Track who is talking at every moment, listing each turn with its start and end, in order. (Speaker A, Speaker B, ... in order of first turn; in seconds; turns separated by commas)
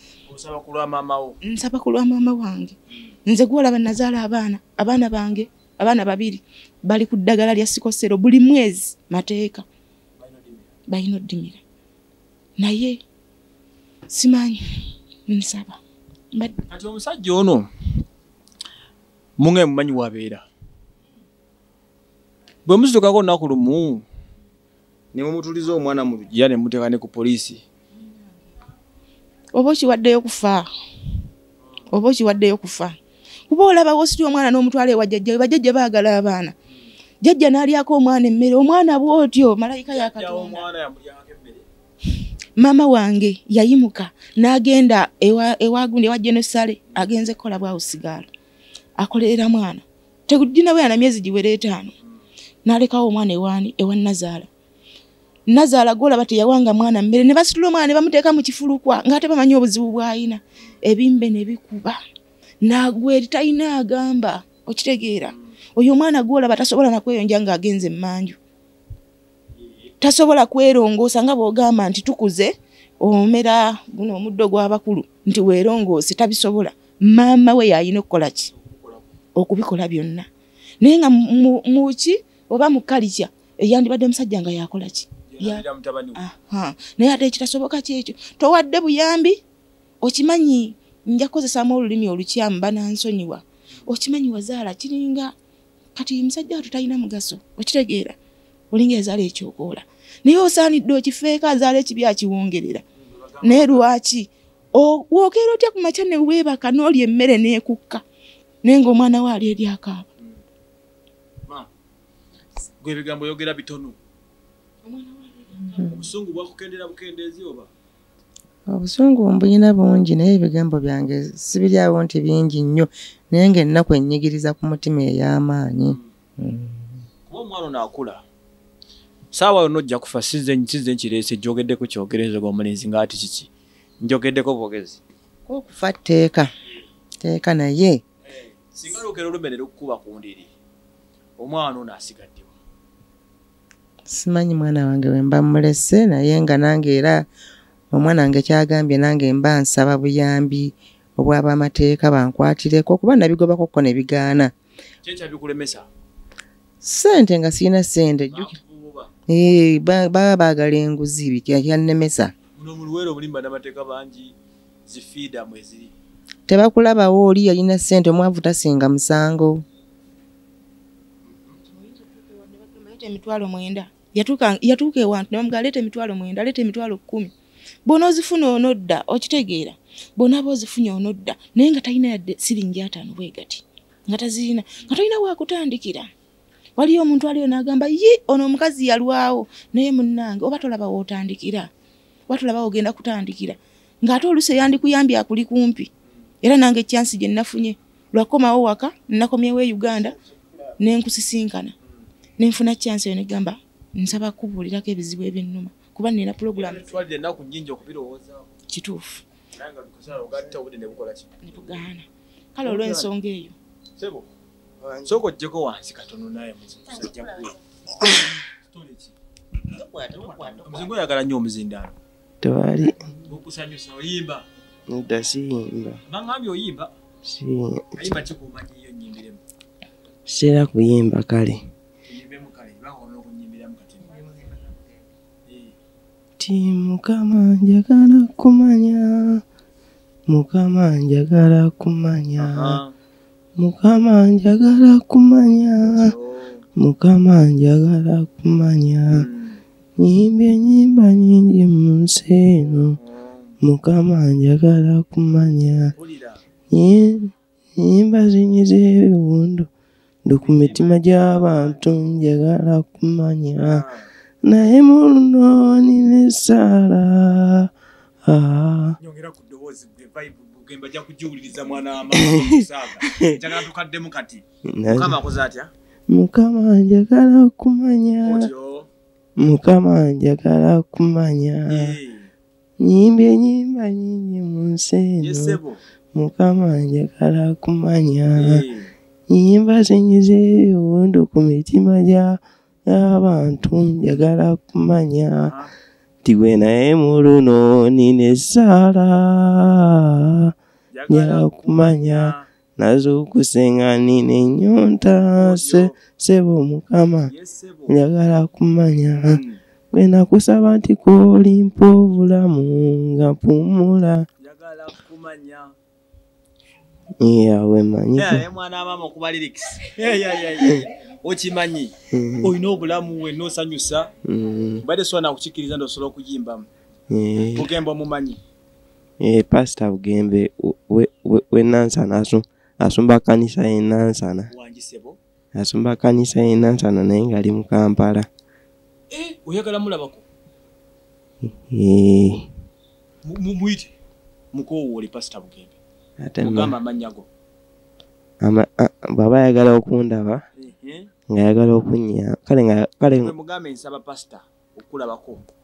Speaker A: 0.3-1.4, Speaker B: 1.4-9.7, Speaker A: 10.2-10.7, Speaker B: 10.9-11.6, Speaker B: 12.6-13.0, Speaker B: 14.1-15.8, Speaker A: 16.7-17.7, Speaker A: 19.4-20.5, Speaker A: 22.7-24.1, Speaker A: 25.1-27.6, Speaker B: 29.5-30.7, Speaker B: 31.9-33.0, Speaker B: 33.5-36.5, Speaker B: 37.2-40.6, Speaker A: 39.9-41.7, Speaker B: 42.6-48.3, Speaker B: 49.0-51.9, Speaker B: 52.6-54.5, Speaker B: 55.5-62.0, Speaker B: 62.6-68.4, Speaker A: 69.6-69.9, Speaker B: 70.0-78.5, Speaker A: 78.5-79.0, Speaker B: 79.4-80.3, Speaker B: 80.8-85.7, Speaker A: 85.3-86.2, Speaker B: 86.2-89.4, Speaker B: 90.0-95.3, Speaker B: 96.0-98.2, Speaker B: 98.7-102.8, Speaker A: 103.0-103.8, Speaker B: 103.4-108.0, Speaker B: 108.6-110.1, Speaker A: 112.8-114.0, Speaker B: 114.8-115.9, Speaker A: 115.8-117.7, Speaker C: 118.7-126.9, Speaker A: 127.3-128.2, Speaker A: 129.3-135.0, Speaker C: 135.5-136.5, Speaker C: 137.2-138.0, Speaker A: 138.3-140.5, Speaker A: 141.4-142.6, Speaker C: 144.1-147.3, Speaker C: 147.9-154.5, Speaker A: 155.0-155.9, Speaker C: 156.8-158.6, Speaker A: 158.3-159.1, Speaker C: 159.3-162.3, Speaker A: 162.6-164.3, Speaker A: 164.9-165.9, Speaker C: 166.5-169.7, Speaker A: 171.3-171.6, Speaker B: 171.7-177.3, Speaker B: 177.9-186.1, Speaker B: 186.8-191.7, Speaker B: 192.3-195.9, Speaker B: 196.4-200.2, Speaker B: 200.8-201.7, Speaker B: 202.4-207.0, Speaker A: 206.6-208.5, Speaker B: 208.7-209.2, Speaker A: 209.5-211.7, Speaker B: 211.4-213.6, Speaker A: 212.6-213.1, Speaker A: 214.0-214.3, Speaker D: 214.8-215.2, Speaker A: 215.0-219.1, Speaker C: 219.8-220.7, Speaker A: 220.1-222.0, Speaker D: 222.4-223.1, Speaker A: 223.2-224.5, Speaker D: 224.9-226.0, Speaker A: 226.1-226.9, Speaker D: 227.2-228.1, Speaker A: 228.0-229.4, Speaker D: 230.3-231.6, Speaker A: 232.1-234.4, Speaker A: 235.4-235.8, Speaker D: 236.4-239.4, Speaker D: 240.3-242.8, Speaker A: 242.4-242.9, Speaker D: 243.6-246.2, Speaker A: 245.8-246.6, Speaker D: 246.8-249.3, Speaker A: 249.1-249.6, Speaker D: 250.0-253.0, Speaker A: 252.6-253.6, Speaker D: 253.6-255.9, Speaker A: 255.9-256.4, Speaker D: 256.7-259.7, Speaker D: 260.3-263.8, Speaker A: 260.4-261.8, Speaker A: 263.6-264.1, Speaker D: 264.4-267.7, Speaker D: 268.2-269.0, Speaker A: 269.0-275.7, Speaker D: 272.1-272.5, Speaker D: 273.0-273.4, Speaker D: 274.7-275.2, Speaker D: 276.1-278.5, Speaker A: 278.2-278.9, Speaker D: 279.4-282.0, Speaker A: 281.7-282.3, Speaker D: 282.8-285.6, Speaker A: 285.2-285.8, Speaker D: 286.1-288.6, Speaker A: 288.4-288.9, Speaker D: 289.3-295.5, Speaker A: 295.4-295.7, Speaker D: 296.2-300.5, Speaker A: 300.9-302.5, Speaker D: 301.1-307.3, Speaker A: 305.4-306.0, Speaker A: 307.3-308.0, Speaker D: 307.9-309.4, Speaker A: 309.3-309.6, Speaker D: 309.9-314.3, Speaker A: 314.4-315.8, Speaker D: 317.2-318.5, Speaker A: 318.1-324.1, Speaker D: 322.1-322.6, Speaker D: 324.2-324.9, Speaker A: 324.8-326.7, Speaker D: 327.1-327.7, Speaker A: 327.5-328.4, Speaker D: 329.2-334.5, Speaker A: 334.5-335.2, Speaker D: 335.6-338.3, Speaker A: 339.1-340.2, Speaker D: 341.4-342.5, Speaker A: 343.2-343.9, Speaker A: 344.5-345.8, Speaker D: 346.2-346.8, Speaker A: 346.4-347.3, Speaker D: 348.4-350.4, Speaker A: 350.6-351.1, Speaker D: 351.3-353.4, Speaker A: 353.2-355.4